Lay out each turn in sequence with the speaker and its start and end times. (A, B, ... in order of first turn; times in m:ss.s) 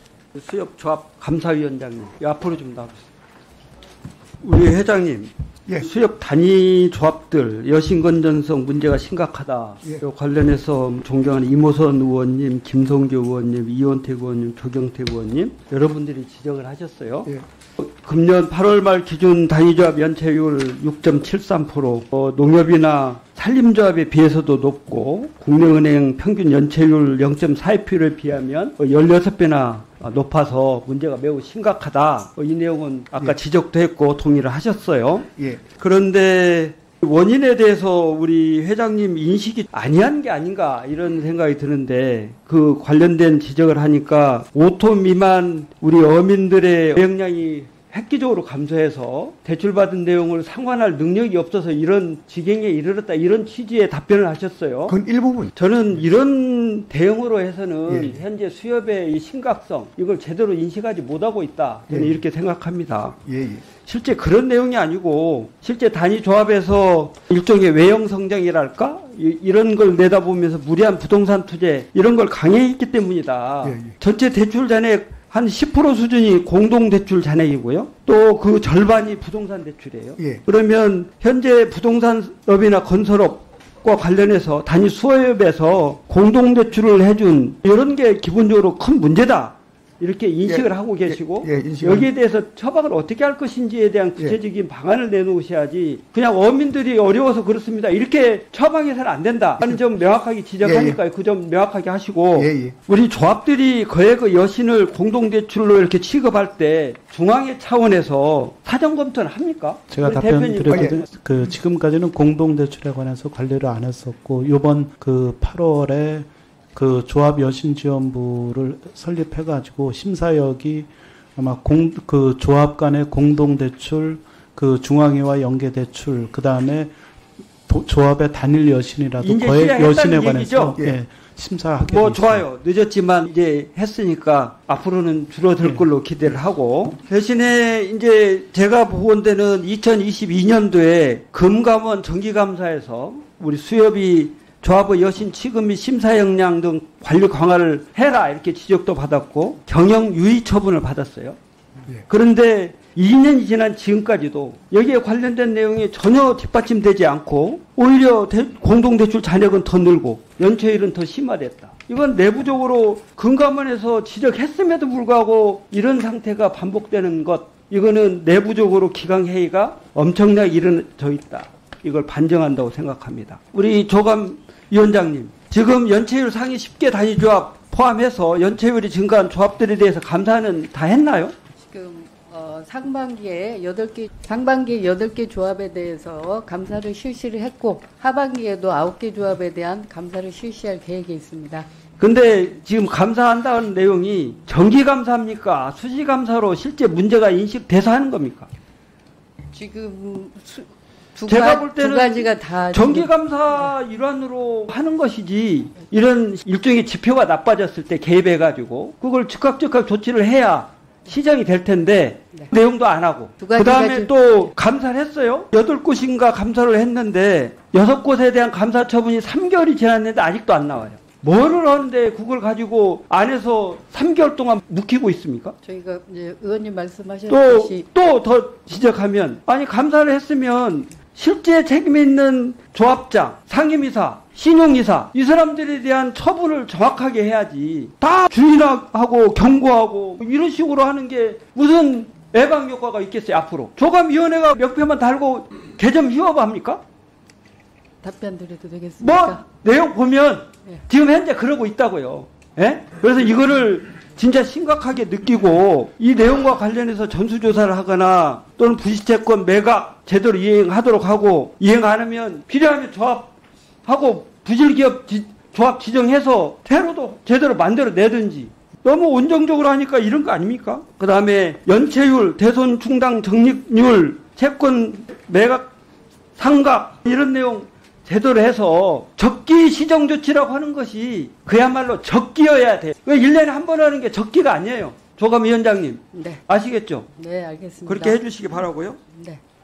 0:00.3-0:03.1 A
0:04.4-0:55.0 A
0:54.9-0:55.5 B
0:55.6-1:51.1 A
0:57.9-0:58.2 B
1:03.3-1:03.6 B
1:13.6-1:13.9 B
1:31.3-1:32.1 B
1:40.6-1:41.0 B
1:42.4-1:42.7 B
1:49.9-2:06.9 C
2:07.7-2:12.4 C
2:09.2-2:10.8 A
2:11.8-2:31.4 A
2:32.1-3:01.4 A
3:01.6-3:11.7 D
3:12.0-3:18.5 A
3:19.5-3:23.7 D
3:21.3-3:45.6 A
3:33.4-3:34.5 D
3:45.6-3:47.9 D
3:47.3-4:06.8 A
4:08.0-4:09.4 D
4:09.0-4:35.7 A
4:36.4-4:47.1 A
4:46.1-4:46.4 D
4:47.2-4:48.2 D
4:47.9-4:49.0 A
4:49.1-4:49.4 D